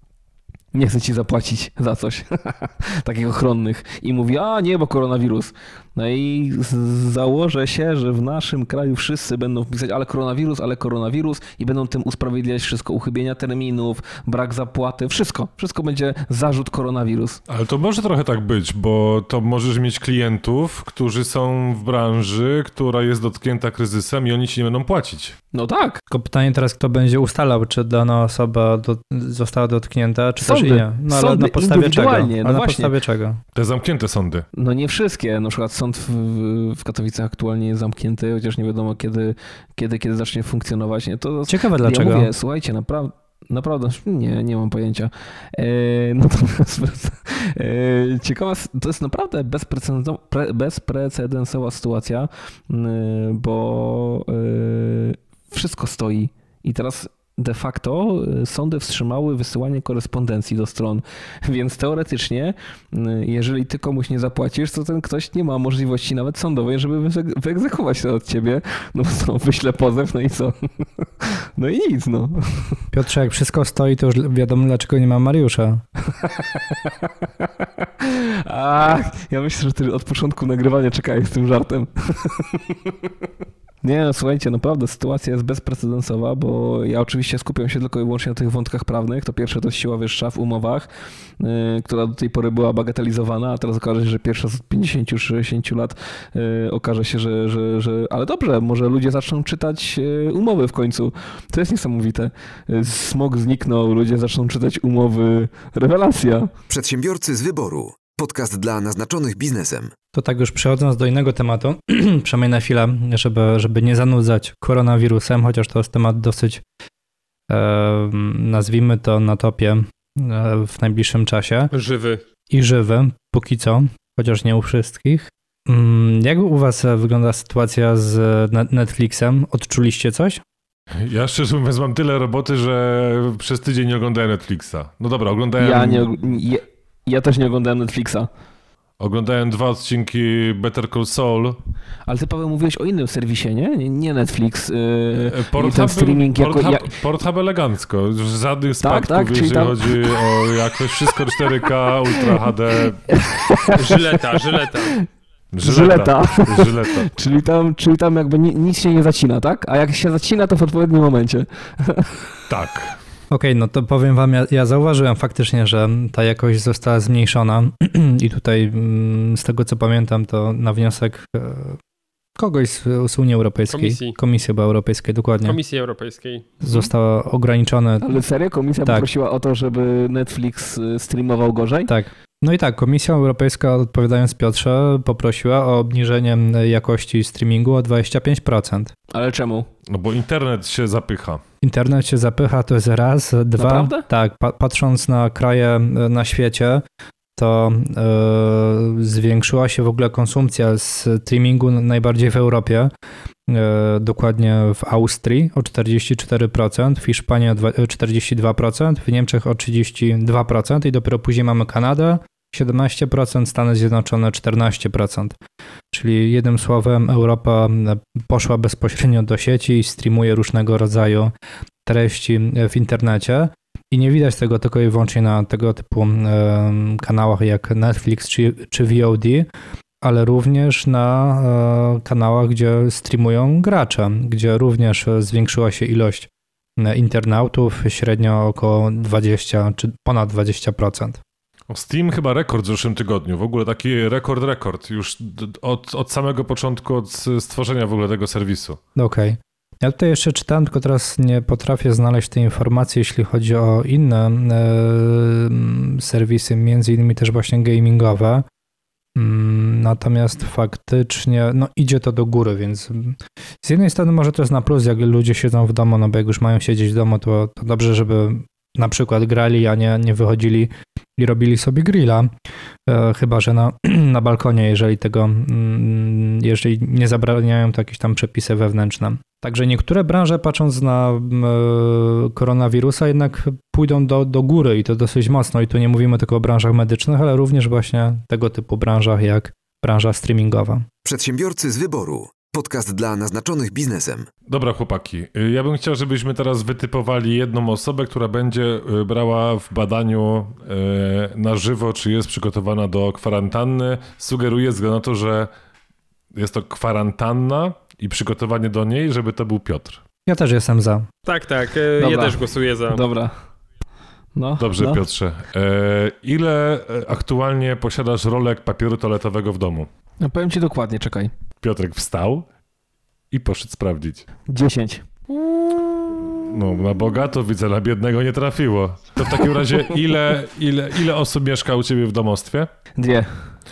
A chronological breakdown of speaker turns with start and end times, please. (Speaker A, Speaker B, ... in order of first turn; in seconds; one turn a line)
Speaker A: 0.7-17.4
Speaker B: 17.5-25.4
Speaker A: 25.5-26.0
Speaker C: 26.1-33.4
Speaker A: 30.4-32.9
Speaker B: 33.5-34.4
Speaker A: 34.5-72.8
Speaker C: 41.5-42.3
Speaker C: 72.9-75.8
Speaker A: 76.1-83.1
Speaker A: 83.8-90.9
Speaker A: 91.4-106.5
Speaker D: 106.7-109.9
Speaker C: 110.1-116.6
Speaker C: 117.5-121.7
Speaker E: 121.7-122.2
Speaker C: 122.5-130.4
Speaker B: 131.0-136.1
Speaker A: 135.6-138.3
Speaker B: 139.0-141.6
Speaker A: 142.1-146.9
Speaker B: 145.2-153.0
Speaker A: 148.8-150.2
Speaker A: 153.1-155.0
Speaker E: 153.8-154.9
Speaker B: 155.5-157.1
Speaker A: 155.6-162.2
Speaker B: 162.5-163.0
Speaker C: 163.3-171.8
Speaker C: 172.4-175.6
Speaker E: 173.7-174.2
Speaker E: 175.4-176.9
Speaker C: 176.6-178.2
Speaker A: 178.0-181.9
Speaker C: 181.9-188.9
Speaker A: 189.1-189.7
Speaker B: 189.9-191.4
Speaker C: 191.6-196.8
Speaker A: 193.6-194.1
Speaker C: 197.4-202.9
Speaker C: 203.5-215.3
Speaker C: 215.9-221.3
Speaker C: 221.8-229.5
Speaker C: 230.0-241.2
Speaker B: 241.7-248.8
Speaker C: 248.9-258.4
Speaker C: 259.1-272.3
Speaker C: 272.9-290.9
Speaker D: 291.0-294.3
Speaker B: 294.5-305.5
Speaker B: 306.3-310.0
Speaker C: 310.3-311.1
Speaker E: 311.2-313.0
Speaker A: 312.0-313.3
Speaker A: 314.4-315.0
Speaker B: 314.6-319.9
Speaker A: 320.2-321.3
Speaker B: 321.6-322.4
Speaker B: 323.3-324.2
Speaker A: 324.5-325.1
Speaker A: 325.8-326.2
Speaker B: 326.3-332.7
Speaker A: 329.3-329.7
Speaker A: 333.0-333.5